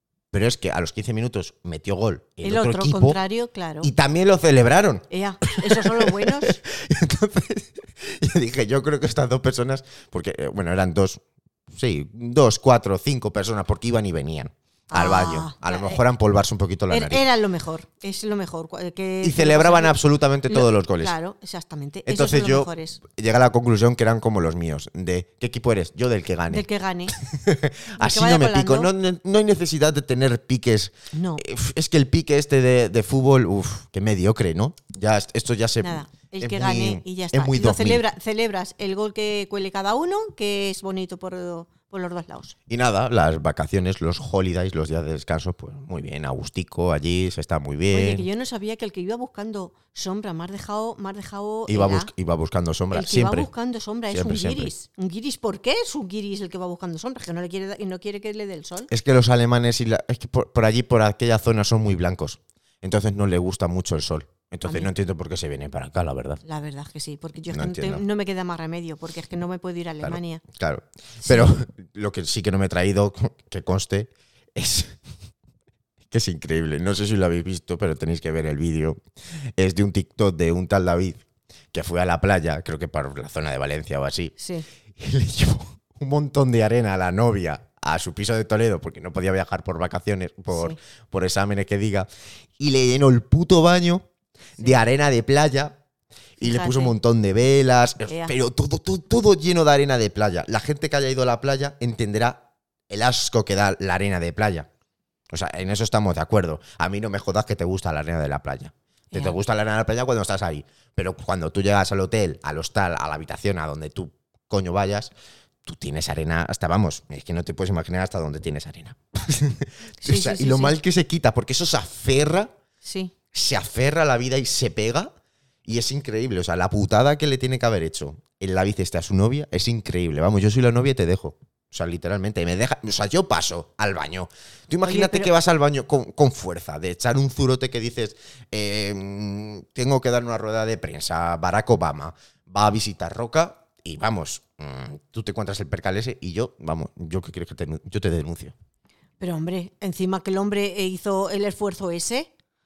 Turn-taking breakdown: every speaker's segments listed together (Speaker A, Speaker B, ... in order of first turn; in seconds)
Speaker A: 0.3-3.2, 3.8-17.2, 19.2-21.1, 22.1-38.0, 42.7-48.2, 51.7-53.5, 54.1-54.7, 58.9-66.4, 67.5-68.0, 70.0-75.0, 76.1-79.0, 79.6-81.2, 81.7-84.3, 85.0-92.1, 92.6-94.0, 94.6-95.8, 96.4-104.7, 105.3-115.1, 115.6-122.5, 123.3-125.1, 125.7-148.6
Speaker B: 2.4-3.9, 5.1-6.6, 14.9-16.0, 16.9-20.0, 20.5-23.0, 26.5-27.1, 28.0-28.9, 31.1-31.4, 35.8-42.5, 47.9-52.1, 52.9-58.9, 64.7-64.9, 66.4-70.4, 71.2-71.5, 84.4-84.7, 90.5-90.8, 96.4-97.0, 98.1-98.3, 109.1-109.4, 120.0-120.8, 122.8-123.1, 134.8-135.3, 149.2-152.3